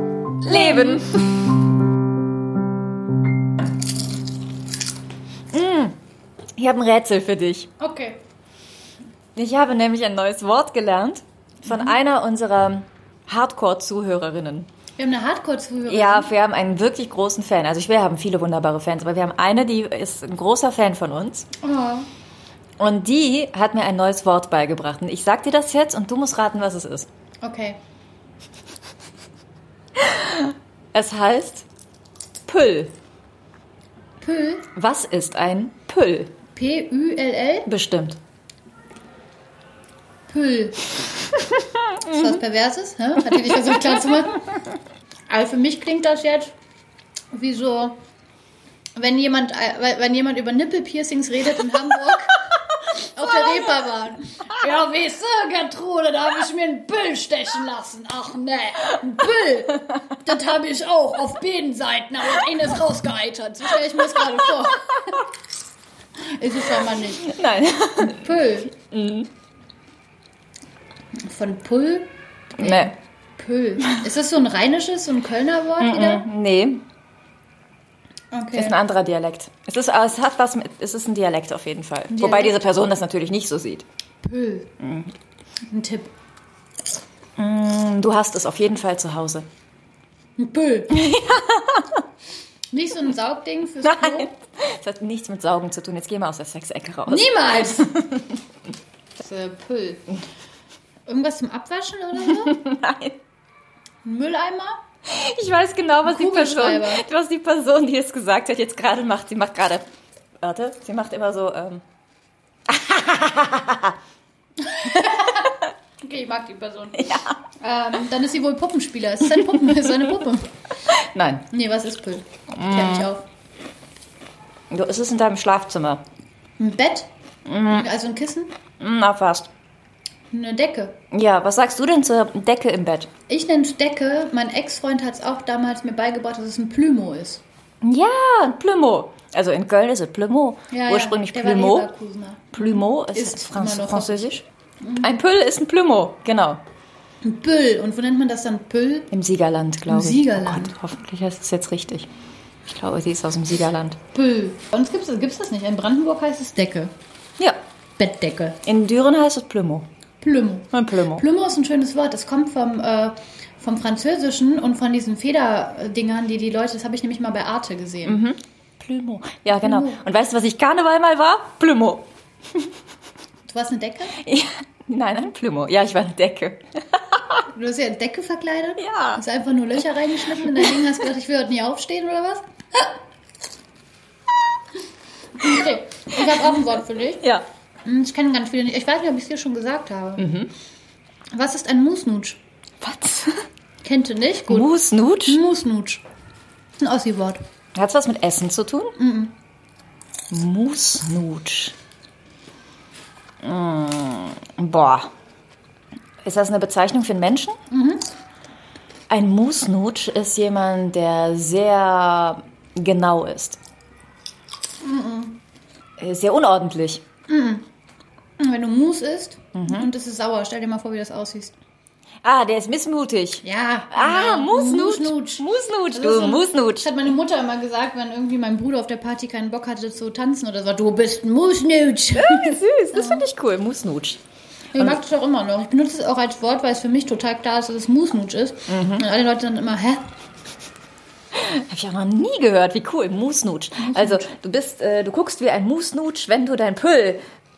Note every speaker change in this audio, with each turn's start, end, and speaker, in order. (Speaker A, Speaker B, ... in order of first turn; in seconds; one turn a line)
Speaker A: 0.4-1.2
Speaker B: 0.4-1.4
Speaker B: 5.5-6.0
Speaker B: 6.6-7.7
Speaker A: 7.8-8.2
Speaker B: 9.3-14.7
Speaker A: 15.0-16.3
Speaker B: 15.9-21.5
Speaker A: 21.6-22.1
Speaker B: 22.8-27.1
Speaker A: 27.4-27.8
Speaker B: 30.0-31.6
Speaker B: 32.5-32.9
Speaker A: 34.2-34.7
Speaker B: 34.7-36.3
Speaker A: 36.5-37.7
Speaker B: 37.6-38.2
Speaker A: 40.3-40.9
Speaker A: 42.0-44.5
Speaker A: 45.3-46.5
Speaker A: 47.3-48.0
Speaker A: 49.0-65.2
Speaker A: 66.2-67.3
Speaker B: 66.9-69.3
Speaker A: 68.0-68.7
Speaker A: 71.2-76.2
Speaker B: 72.6-72.9
Speaker B: 75.8-76.8
Speaker A: 78.3-78.8
Speaker B: 78.5-83.8
Speaker A: 82.1-82.6
Speaker A: 84.2-84.7
Speaker B: 84.8-85.1
Speaker A: 85.7-86.1
Speaker B: 87.4-89.5
Speaker A: 90.4-91.0
Speaker B: 90.9-92.0
Speaker A: 92.7-94.3
Speaker B: 93.8-98.2
Speaker A: 97.1-97.9
Speaker A: 99.2-100.0
Speaker A: 101.1-102.6
Speaker B: 102.2-103.2
Speaker A: 104.0-104.8
Speaker B: 105.0-109.8
Speaker A: 106.0-107.0
Speaker B: 110.4-111.8
Speaker B: 112.7-113.9
Speaker A: 114.6-120.5
Speaker B: 117.0-117.4
Speaker B: 120.9-121.5
Speaker A: 121.5-123.3
Speaker B: 122.5-123.1
Speaker B: 124.7-126.0
Speaker A: 126.6-127.1
Speaker B: 127.5-127.8
Speaker A: 127.7-128.5
Speaker B: 128.8-129.5
Speaker A: 130.3-131.0
Speaker B: 131.1-133.1
Speaker A: 133.3-137.4
Speaker B: 137.8-141.9
Speaker A: 140.7-145.1
Speaker B: 142.5-144.4
Speaker B: 145.0-146.6
Speaker A: 147.2-149.1
Speaker B: 149.1-152.1
Speaker A: 149.8-150.7
Speaker B: 152.6-154.0
Speaker A: 154.1-156.9
Speaker A: 158.0-158.6
Speaker B: 158.6-159.8
Speaker A: 160.2-168.2
Speaker B: 160.7-161.2
Speaker B: 168.1-172.1
Speaker A: 169.6-170.0
Speaker A: 173.5-174.2
Speaker B: 174.2-177.4
Speaker A: 177.5-182.9
Speaker B: 178.8-179.2
Speaker B: 180.4-180.8
Speaker A: 185.4-187.2
Speaker A: 187.8-190.3
Speaker B: 190.2-190.5
Speaker A: 191.3-192.4
Speaker B: 192.8-193.4
Speaker A: 193.8-194.7
Speaker B: 194.5-195.4
Speaker A: 195.2-196.0
Speaker A: 196.8-197.4
Speaker B: 197.7-198.9
Speaker A: 199.0-199.3
Speaker B: 200.3-201.8
Speaker B: 203.4-205.1
Speaker B: 206.2-207.6
Speaker A: 207.7-208.1
Speaker B: 209.1-213.6
Speaker A: 214.8-215.4
Speaker B: 216.0-217.0
Speaker A: 217.3-217.6
Speaker A: 218.4-221.5
Speaker B: 219.5-219.9
Speaker B: 222.2-226.9
Speaker A: 223.4-233.3
Speaker B: 232.1-234.2
Speaker A: 234.7-240.0
Speaker B: 238.7-239.0
Speaker B: 241.3-247.2
Speaker A: 243.8-244.2